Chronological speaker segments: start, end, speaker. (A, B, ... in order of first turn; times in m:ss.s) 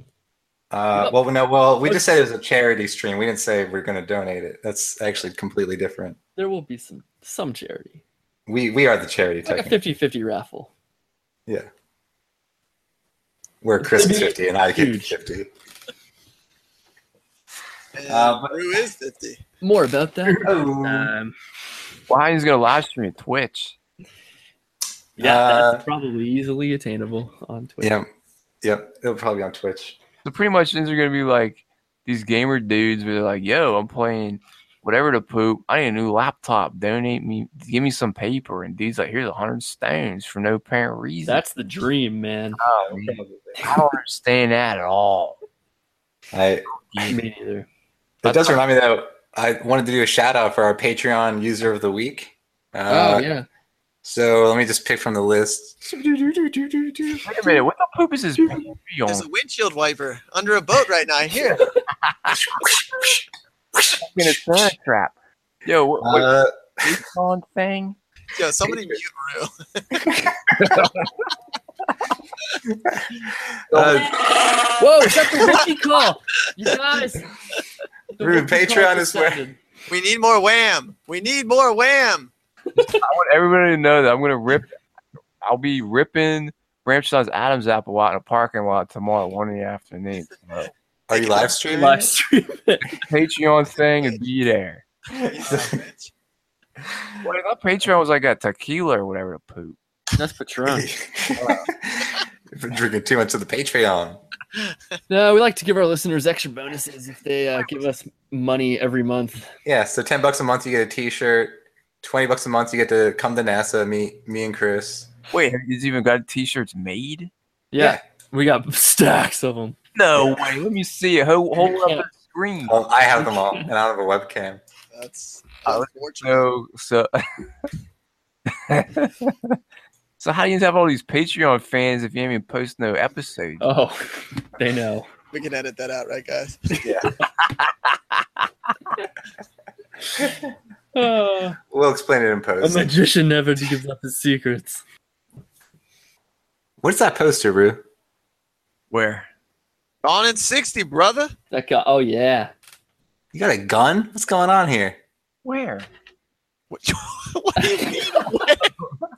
0:00.7-0:06.2 A
0:06.4-0:08.0 B
0:08.5-0:09.8 A
0:09.4-0:10.7 B
0:13.6-0:15.5 A
0:13.8-0:15.2 B
0:18.0-0:19.4 C
0:18.1-0:18.6 A
0:19.6-0:21.3 B
0:20.4-0:21.1 A
0:22.1-0:23.8 D
0:25.2-0:28.0 B
0:25.2-0:25.9 A
0:27.8-0:28.1 A
0:28.6-0:30.0 A
0:30.2-0:41.4 D
0:41.3-0:42.6 B
0:42.6-0:45.4 D
0:42.9-0:43.6 A
0:46.3-0:46.7 A
0:46.7-0:47.2 D
0:47.0-0:47.7 B
0:48.2-0:53.3 A
0:48.2-0:48.6 B
0:52.9-0:53.5 B
0:54.0-0:57.3 A
0:57.2-0:59.3 D
0:59.1-1:01.7 C
1:02.0-1:02.5 D
1:02.6-1:03.1 A
1:03.8-1:04.3 A
1:04.0-1:05.1 D
1:05.6-1:08.0 D
1:06.0-1:06.9 A
1:08.3-1:10.0 C
1:10.0-1:10.8 A
1:10.6-1:11.1 D
1:12.7-1:15.6 A
1:13.7-1:14.3 D
1:14.8-1:17.3 B
1:18.2-1:19.6 B
1:18.2-1:19.4 A
1:19.9-1:22.3 C
1:22.8-1:23.0 B
1:23.0-1:24.7 D
1:25.4-1:30.7 D
1:31.1-1:32.1 A
1:31.2-1:31.5 C
1:31.4-1:33.0 B
1:33.0-1:34.8 D
1:35.2-1:35.8 A
1:35.3-1:36.1 C
1:37.2-1:39.8 D
1:40.2-1:40.9 B
1:40.7-1:44.2 A
1:45.1-1:49.5 B
1:49.6-1:55.1 A
1:55.3-1:57.3 D
1:57.7-1:59.8 B
2:00.0-2:02.8 D
2:01.6-2:02.1 B
2:02.7-2:04.6 A
2:03.2-2:03.7 B
2:04.9-2:06.5 C
2:05.6-2:07.5 D
2:08.7-2:09.6 D
2:10.2-2:13.6 D
2:13.6-2:15.1 B
2:15.3-2:16.8 C
2:16.8-2:17.1 A
2:17.4-2:18.2 D
2:20.2-2:20.5 A
2:21.0-2:21.6 B
2:21.7-2:22.9 A
2:22.6-2:24.8 B
2:26.8-2:27.8 A
2:28.9-2:29.3 D
2:30.0-2:31.3 C
2:31.5-2:32.5 B
2:33.3-2:35.0 A
2:35.4-2:35.9 D
2:36.7-2:38.7 C